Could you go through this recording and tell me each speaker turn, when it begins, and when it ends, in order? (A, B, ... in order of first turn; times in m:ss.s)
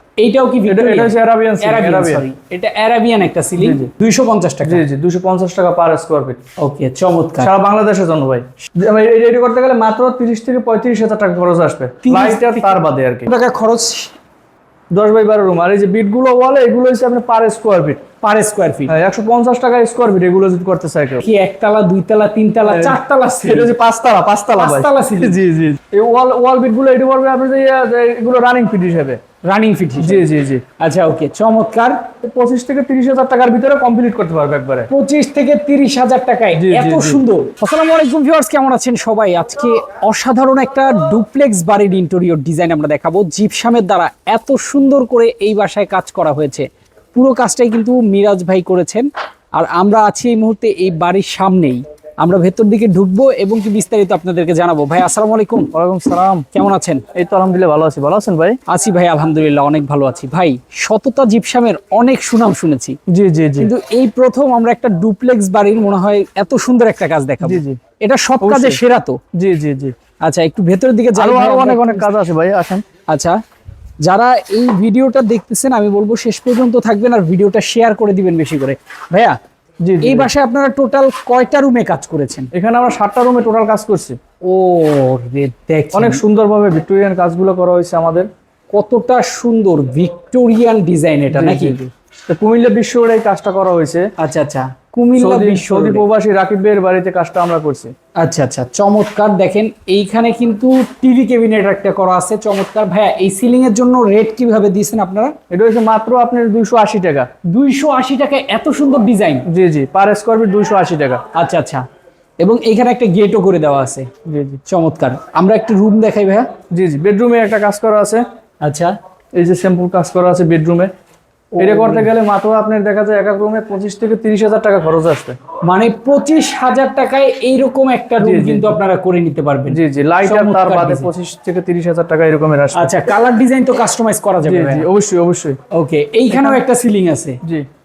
0:00.2-0:04.8 A
0:00.7-0:02.2 B
0:03.6-0:03.9 B
0:04.6-0:06.4 B
0:06.6-0:07.5 A
0:07.4-0:13.3 B
0:12.0-0:12.8 A
0:13.3-0:14.1 A
0:14.9-0:18.0 B
0:18.2-0:18.9 A
0:18.9-0:21.2 B
0:21.2-0:23.7 A
0:22.7-0:29.2 B
0:24.6-0:25.4 A
0:29.5-0:30.2 A
0:30.0-0:30.6 B
0:30.8-0:32.0 A
0:32.2-0:34.9 B
0:34.9-0:55.7 A
0:36.5-0:37.2 B
0:55.7-0:56.5 B
0:56.5-0:57.0 A
0:57.2-0:58.6 B
0:58.7-1:03.0 A
1:03.1-1:03.7 B
1:03.6-1:09.2 A
1:07.4-1:07.8 B
1:08.4-1:08.8 B
1:09.4-1:10.0 B
1:10.2-1:12.1 A
1:11.2-1:12.8 B
1:13.1-1:13.4 A
1:14.0-1:19.4 A
1:19.8-1:20.3 B
1:20.0-1:22.5 A
1:22.5-1:24.2 B
1:24.4-1:26.2 A
1:25.9-1:28.3 B
1:28.7-1:31.8 A
1:31.3-1:34.1 B
1:34.2-1:36.0 A
1:35.2-1:37.9 B
1:38.2-1:45.4 A
1:45.5-1:47.3 B
1:47.5-1:49.4 A
1:49.5-1:51.2 B
1:51.3-1:51.8 A
1:52.4-1:54.1 A
1:54.3-1:54.6 B
1:54.7-1:56.5 A
1:56.7-1:58.2 B
1:58.6-1:58.9 A
1:59.4-2:00.9 B
2:01.6-2:02.1 A
2:01.6-2:05.4 B
2:05.6-2:11.1 A
2:08.2-2:08.8 B
2:09.7-2:12.9 B
2:12.8-2:14.9 A
2:14.4-2:15.6 B
2:15.7-2:17.4 A
2:16.3-2:16.6 B